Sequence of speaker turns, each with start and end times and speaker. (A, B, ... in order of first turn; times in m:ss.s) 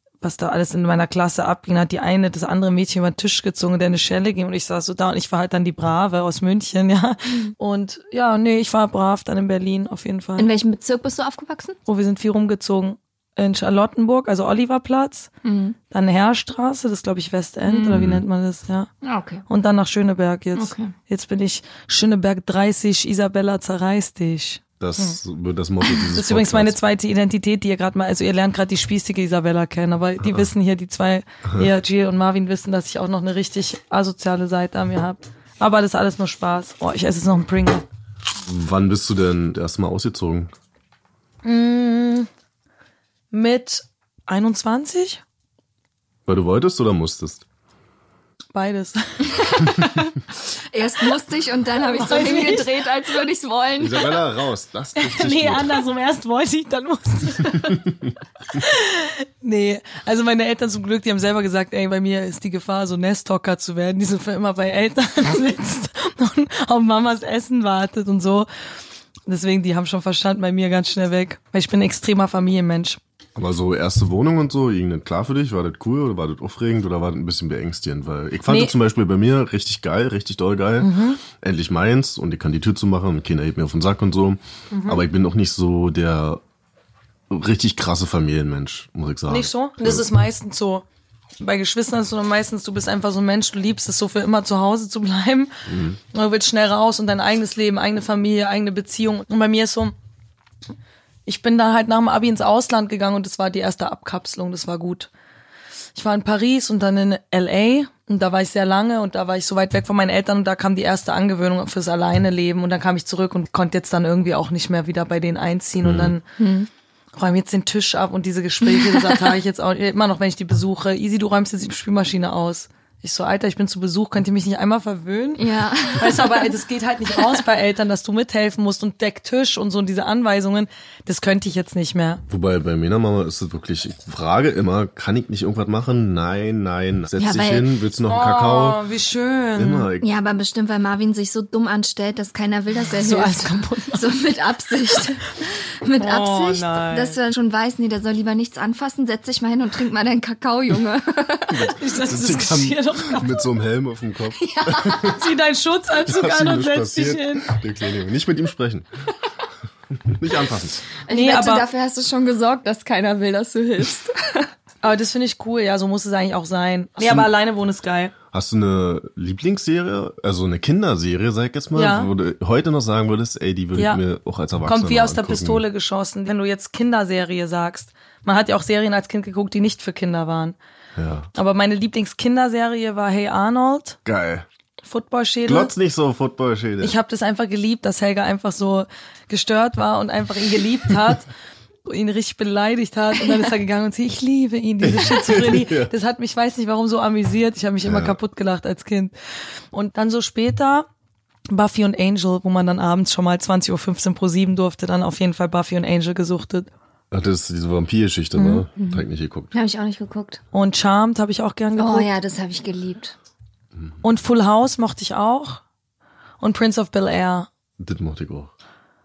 0:00.2-0:10.5 A
0:10.4-0:11.8 B
0:11.8-0:15.3 A
0:15.4-0:15.8 B
0:15.9-0:18.9 A
0:17.6-0:18.0 B
0:17.9-0:18.2 C
0:19.0-0:19.4 B
0:19.5-0:25.2 A
0:20.6-0:20.9 B
0:24.8-0:26.8 C
0:26.1-0:37.8 A
0:38.4-0:40.5 C
0:41.4-0:42.3 A
0:43.3-0:45.2 A
0:46.3-0:47.4 C
0:48.5-0:49.7 A
0:49.3-0:50.1 B
0:50.7-0:54.1 B
0:51.8-0:52.7 A
0:53.8-0:55.8 C
0:55.0-0:57.8 A
0:58.5-1:08.5 A
1:09.3-1:13.0 A
1:13.4-1:26.4 C
1:18.5-1:18.7 A
1:20.8-1:21.2 A
1:24.7-1:25.0 A
1:27.3-1:30.0 C
1:29.3-1:30.8 A
1:31.4-1:35.5 A
1:35.7-1:36.0 C
1:36.1-1:39.9 A
1:41.2-1:45.1 A
1:45.9-1:56.2 A
1:55.8-1:56.1 C
1:56.4-1:56.7 B
1:57.2-2:12.2 A
1:58.6-1:59.2 B
2:05.4-2:06.5 B
2:07.2-2:07.4 B
2:12.3-2:18.8 C
2:17.2-2:17.7 B
2:18.1-2:19.9 A
2:19.6-2:20.1 C
2:20.0-2:25.3 B
2:23.0-2:24.1 A
2:25.8-2:31.7 B
2:26.0-2:27.2 A
2:31.5-2:35.2 C
2:31.8-2:33.4 A
2:34.4-2:35.2 B
2:35.0-2:37.6 A
2:36.0-2:38.9 C
2:40.0-2:40.9 C
2:41.0-2:44.5 B
2:41.1-2:41.7 A
2:44.8-2:48.1 A
2:47.0-2:47.3 C
2:48.3-2:55.6 C
2:51.7-2:52.1 A
2:53.7-2:54.0 A
2:54.6-3:00.6 A
3:01.0-3:01.3 C
3:01.3-3:04.0 A
3:04.0-3:04.4 C
3:04.8-3:05.7 A
3:05.4-3:07.0 C
3:06.8-3:11.3 A
3:11.8-3:19.1 A
3:14.8-3:15.9 C
3:17.8-3:18.2 C
3:19.7-3:20.9 A
3:21.5-3:26.7 A
3:27.1-3:29.5 C
3:28.4-3:28.6 A
3:28.8-3:30.4 B
3:30.5-3:32.1 A
3:31.8-3:33.2 B
3:34.0-3:35.6 A
3:36.4-3:37.5 A
3:37.8-3:38.5 C